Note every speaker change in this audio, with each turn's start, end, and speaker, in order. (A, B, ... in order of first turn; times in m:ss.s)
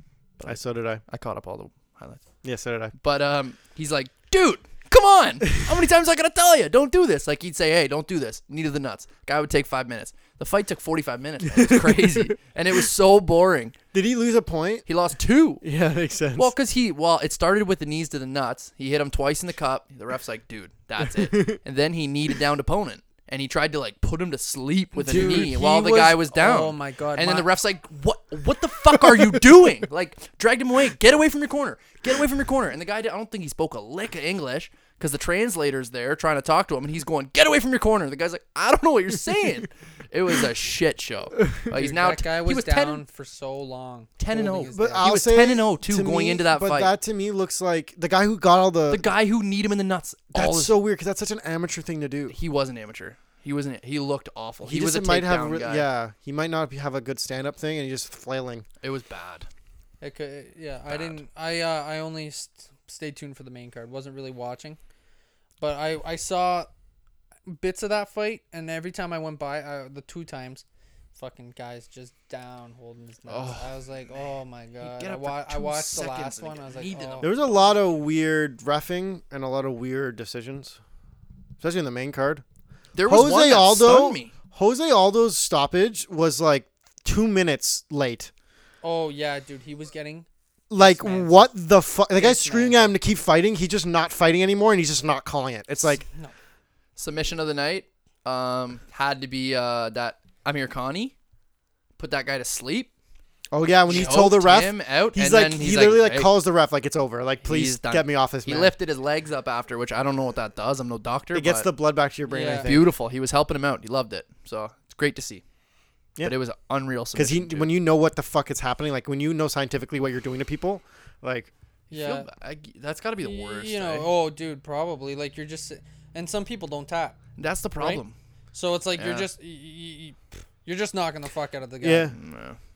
0:00.4-0:02.2 A
0:00.4-0:01.0 B
0:02.4-0:02.9 B
0:03.0-0:13.8 A
0:11.5-0:12.4 B
0:13.9-0:14.9 B
0:14.9-0:15.6 A
0:15.6-0:16.5 B
0:16.4-0:43.0 A
0:21.0-0:21.6 B
0:25.0-0:27.5 C
0:25.0-0:25.5 B
0:28.9-0:29.5 B
0:41.7-0:45.1 C
0:44.2-0:46.9 A
0:44.7-0:49.1 B
0:48.9-0:50.7 A
0:50.3-0:52.4 B
0:52.3-0:55.9 A
0:54.6-0:58.7 B
0:58.8-0:59.5 A
1:00.0-1:04.8 C
1:00.9-1:01.2 A
1:05.6-1:06.7 C
1:07.5-1:10.6 C
1:11.2-1:17.3 C
1:13.3-1:13.7 A
1:14.8-1:17.5 A
1:17.2-1:20.8 B
1:21.6-1:22.4 B
1:23.0-1:24.3 A
1:23.1-1:28.3 B
1:28.8-1:30.3 C
1:30.7-1:36.0 B
1:30.8-1:31.5 C
1:32.1-1:33.0 C
1:36.1-1:36.3 C
1:37.0-1:41.1 A
1:42.0-1:42.9 A
1:43.5-1:48.7 B
1:43.9-1:46.3 A
1:47.4-1:51.7 A
1:51.3-1:52.9 B
1:52.3-1:52.8 C
1:52.6-1:55.4 A
1:56.2-1:57.7 A
1:57.1-2:01.5 B
2:01.9-2:02.3 C
2:01.9-2:04.1 A
2:03.2-2:07.2 C
2:07.4-2:08.2 A
2:07.8-2:12.2 C
2:09.0-2:09.3 A
2:11.8-2:12.1 B
2:12.1-2:12.6 A